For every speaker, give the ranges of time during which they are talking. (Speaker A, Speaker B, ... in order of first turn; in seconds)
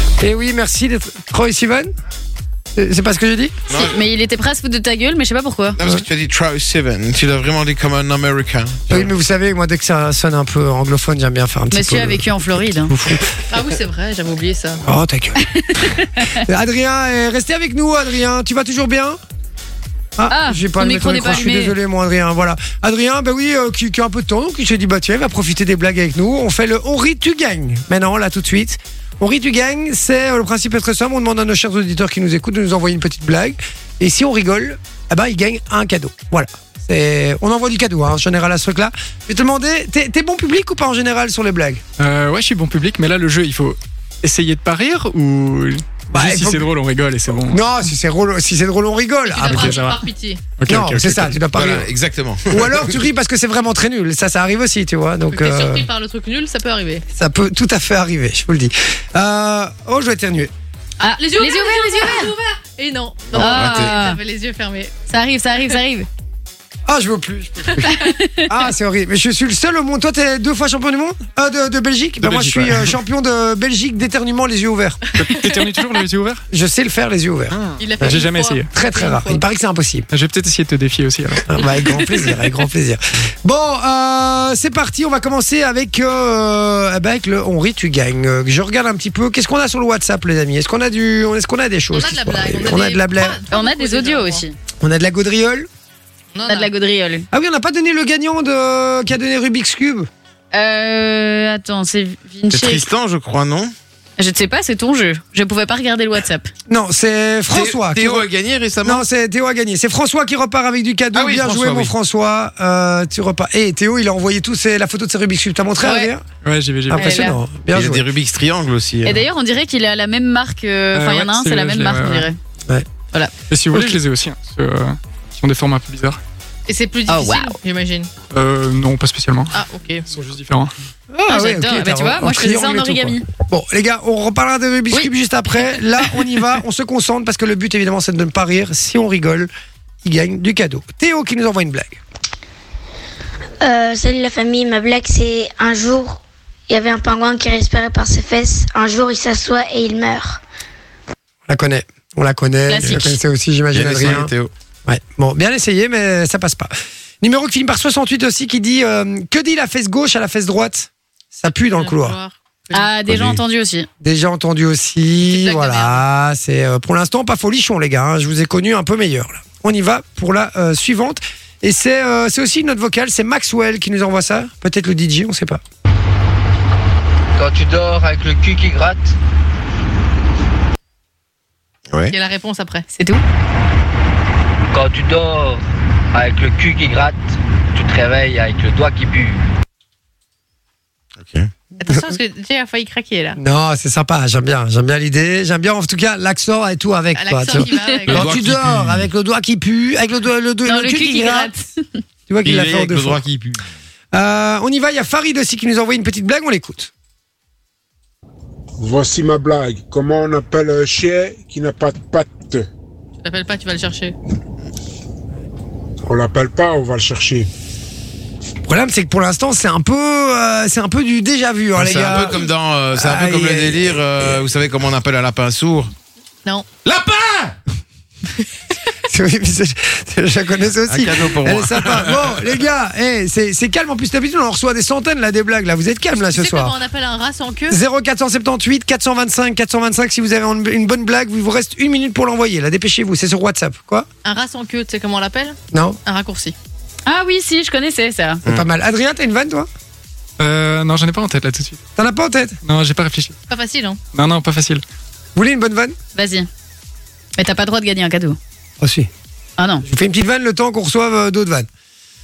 Speaker A: 0.2-1.9, 2.8-3.5, 8.9-13.3, 14.8-15.4, 16.4-19.2, 20.2-41.8, 46.1-46.7, 47.3-49.8, 50.7-51.9, 52.5-55.9, 57.1-60.5, 66.8-75.0, 76.5-80.1, 81.5-93.4, 94.8-95.7, 97.3-100.1, 106.7-108.3, 108.8-116.2, 116.9-118.0, 123.7-124.0, 131.1-139.5, 140.0-142.0, 151.5-154.3, 154.8-156.7, 157.2-162.2, 164.0-175.6, 191.8-192.2, 193.3-201.5, 202.3-203.2, 204.1-206.9, 218.6-224.4, 229.0-236.7, 237.7-244.1, 245.7-246.0, 248.4-249.7, 251.9-252.6, 255.3-256.0, 258.8-259.1, 259.8-261.7
Speaker B: 3.7-4.0, 5.8-9.1, 51.5-52.9, 63.3-63.9, 102.5-103.7, 107.5-109.0, 111.1-111.9, 117.7-119.3, 152.8-153.1, 153.7-154.5, 163.1-163.4, 181.9-182.2, 191.2-191.5, 198.1-199.1, 202.4-203.7, 221.7-225.9, 226.8-227.5, 230.9-232.5
Speaker C: 3.8-5.8, 11.7-12.9, 15.4-16.4, 20.3-21.7, 61.0-62.3, 63.4-64.2, 65.1-66.1, 67.9-68.5, 93.5-94.5, 96.5-97.2, 100.5-102.9, 104.2-106.5, 115.8-116.1, 116.9-117.4, 119.0-122.4, 127.1-127.6, 131.3-133.2, 152.7-153.2, 162.7-163.9, 182.9-183.2, 200.7-201.8, 247.1-248.4, 256.1-256.5, 257.4-258.4, 259.6-259.8
Speaker D: 13.5-14.8, 49.3-50.4, 55.3-57.0, 61.0-65.0, 67.7-68.1, 77.8-79.4, 91.9-94.4, 96.3-96.7, 126.7-128.1, 129.5-130.1, 161.5-162.9, 165.3-166.0, 182.1-182.8, 191.8-193.4, 197.1-198.3, 213.2-214.1, 236.3-237.8, 244.2-246.5, 253.5-254.0
Speaker E: 42.0-47.6, 49.4-50.0, 50.6-51.4, 72.2-73.0, 75.1-76.4, 77.5-78.7, 80.1-82.0, 116.4-117.2, 120.9-122.3, 123.5-126.2, 128.3-130.7, 250.4-251.8, 252.6-253.3, 254.1-254.8
Speaker F: 143.6-150.4
Speaker G: 177.4-179.1, 184.7-185.6, 186.1-187.2, 187.7-189.4
Speaker H: 208.8-212.7, 216.0-217.5